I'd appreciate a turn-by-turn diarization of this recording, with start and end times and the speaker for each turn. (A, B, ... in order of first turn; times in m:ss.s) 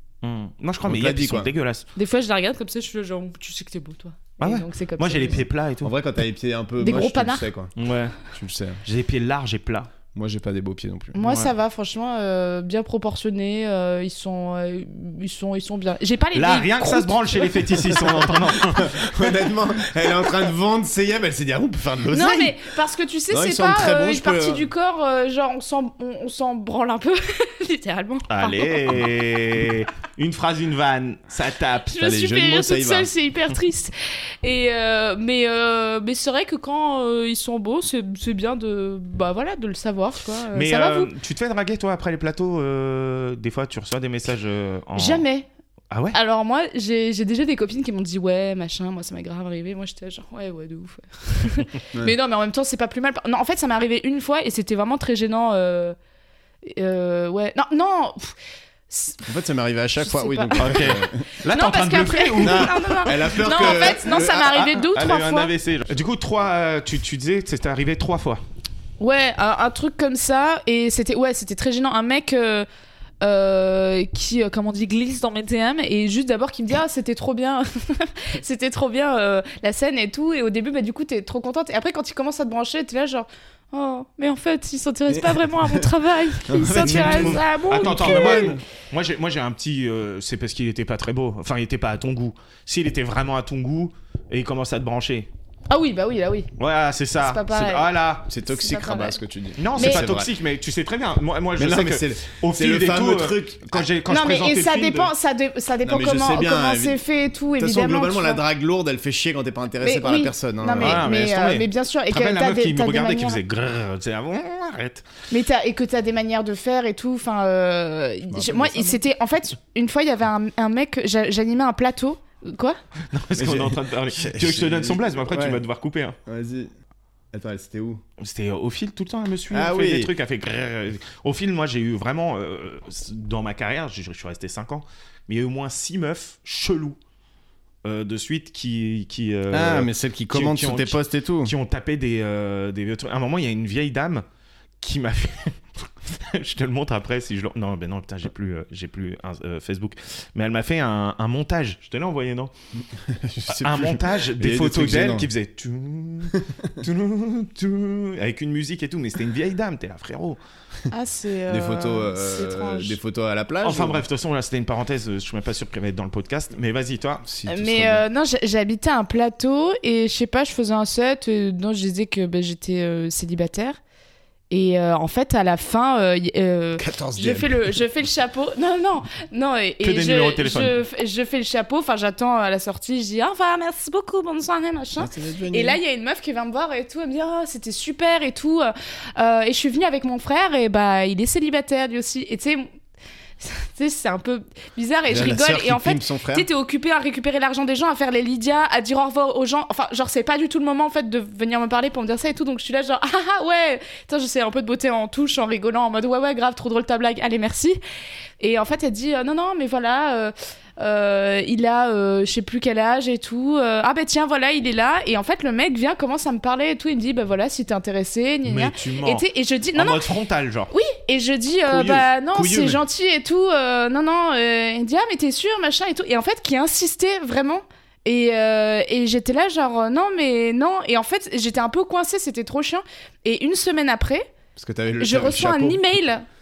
0:00.2-0:01.8 A
0:00.8-0:01.5 B
0:02.0-0:05.4 C
0:04.4-0:05.9 A
0:05.8-0:07.7 B
0:06.8-0:07.5 C
0:07.8-0:08.2 A
0:08.3-0:08.8 B
0:08.8-0:09.9 A
0:10.1-0:11.2 B
0:11.1-0:18.1 C
0:11.2-0:11.5 A
0:16.3-0:19.3 A
0:18.0-0:22.6 B
0:22.1-0:29.0 C
0:23.3-0:24.7 B
0:28.3-0:32.0 A
0:31.9-0:41.1 C
0:32.0-0:33.1 B
0:40.5-0:45.2 A
0:45.0-0:45.5 C
0:45.9-0:46.2 A
0:46.1-0:56.0 C
0:56.6-0:58.3 C
0:58.9-0:59.2 C
0:59.2-1:01.2 B
1:00.0-1:05.5 C
1:00.6-1:08.4 A
1:02.4-1:04.6 B
1:09.0-1:12.7 C
1:13.2-1:28.6 C
1:25.1-1:25.9 B
1:26.4-1:28.6 B
1:26.7-1:35.3 A
1:35.7-1:36.5 C
1:36.6-1:38.3 A
1:37.2-1:37.9 C
1:38.3-1:40.3 B
1:38.4-1:39.2 C
1:39.6-1:45.1 A
1:39.7-1:40.1 C
1:41.6-1:43.9 B
1:44.1-1:48.4 C
1:45.8-1:47.0 B
1:47.6-1:51.0 B
1:49.8-1:53.4 C
1:50.8-1:55.0 A
1:55.3-2:02.8 C
1:58.3-1:59.0 B
2:03.1-2:06.2 A
2:03.4-2:05.6 B
2:06.2-2:06.7 B
2:07.3-2:08.0 B
2:08.2-2:17.0 A
2:09.5-2:10.1 B
2:17.8-2:24.2 A
2:19.5-2:21.5 B
2:24.8-2:32.5 A
2:32.9-2:35.3 B
2:33.5-2:40.4 A
2:40.9-2:43.0 C
2:41.5-2:44.0 B
2:43.6-2:47.2 A
2:47.2-2:48.0 B
2:47.4-2:53.8 C
2:54.5-3:12.7 C
2:56.8-2:57.7 B
2:59.8-3:00.8 A
3:05.0-3:05.8 B
3:13.4-3:27.8 C
3:15.1-3:16.5 B
3:28.4-3:40.0 C
3:38.4-3:40.7 A
3:40.7-3:54.3 C
3:41.7-3:42.8 B
3:54.6-3:55.8 B
3:55.0-3:56.2 C